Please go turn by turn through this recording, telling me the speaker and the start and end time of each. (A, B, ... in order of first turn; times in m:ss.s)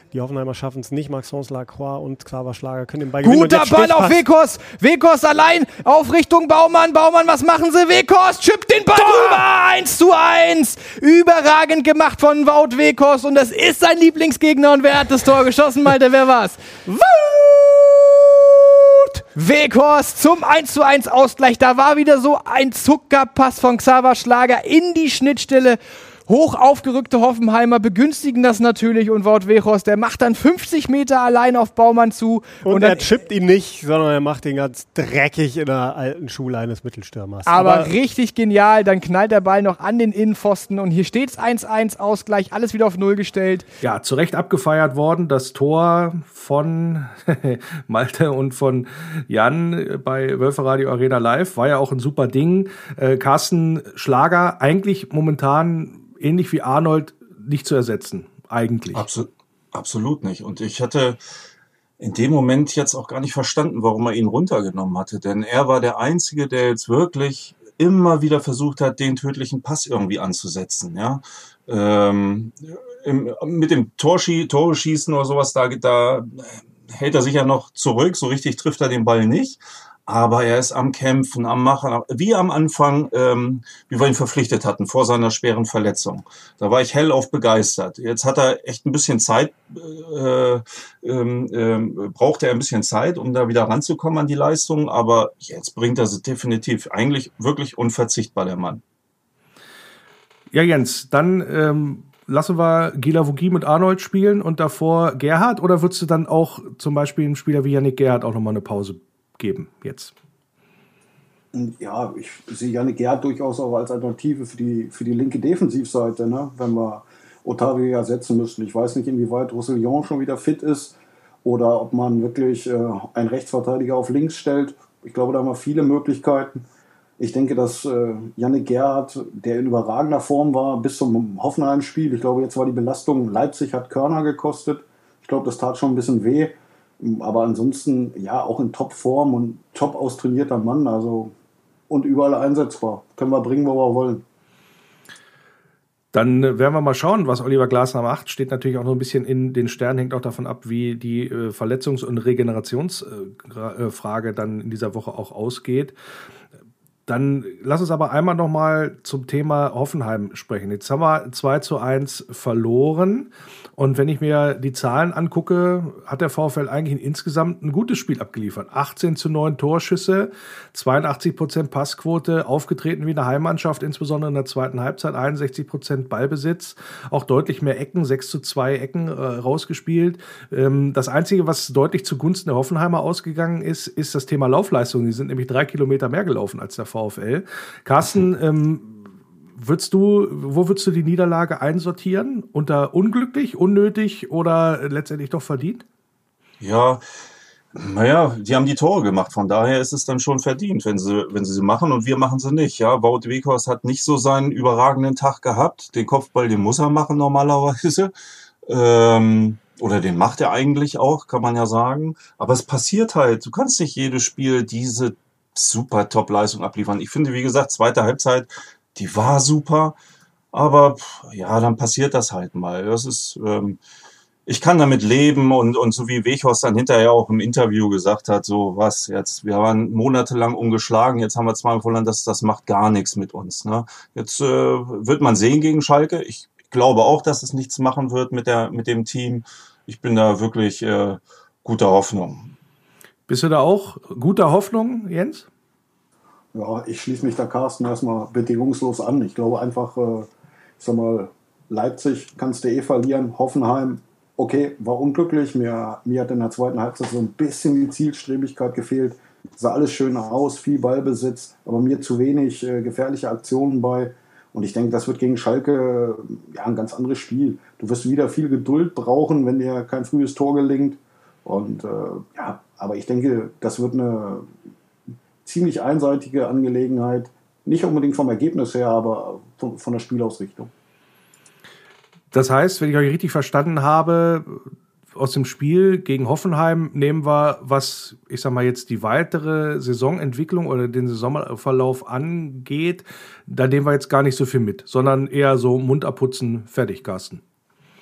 0:00.1-0:04.2 A
0:03.2-0:33.2 B
0:09.1-0:09.4 A
0:32.6-0:37.9 A
0:37.4-0:43.6 B
0:43.8-0:59.0 C
0:58.9-1:01.2 D
1:02.0-1:38.8 D
1:40.5-1:50.1 C
1:51.5-2:06.6 E
2:07.2-2:21.3 E
2:21.9-2:24.2 E
2:26.1-2:35.9 C
2:37.1-3:15.8 C
3:16.6-3:17.0 D
3:17.7-3:28.1 D
3:28.7-3:40.0 D
3:40.5-3:43.8 D
3:44.5-4:02.5 D
4:03.3-4:05.5 C
4:06.5-4:34.5 E
4:35.4-4:40.7 E
4:42.3-4:57.4 C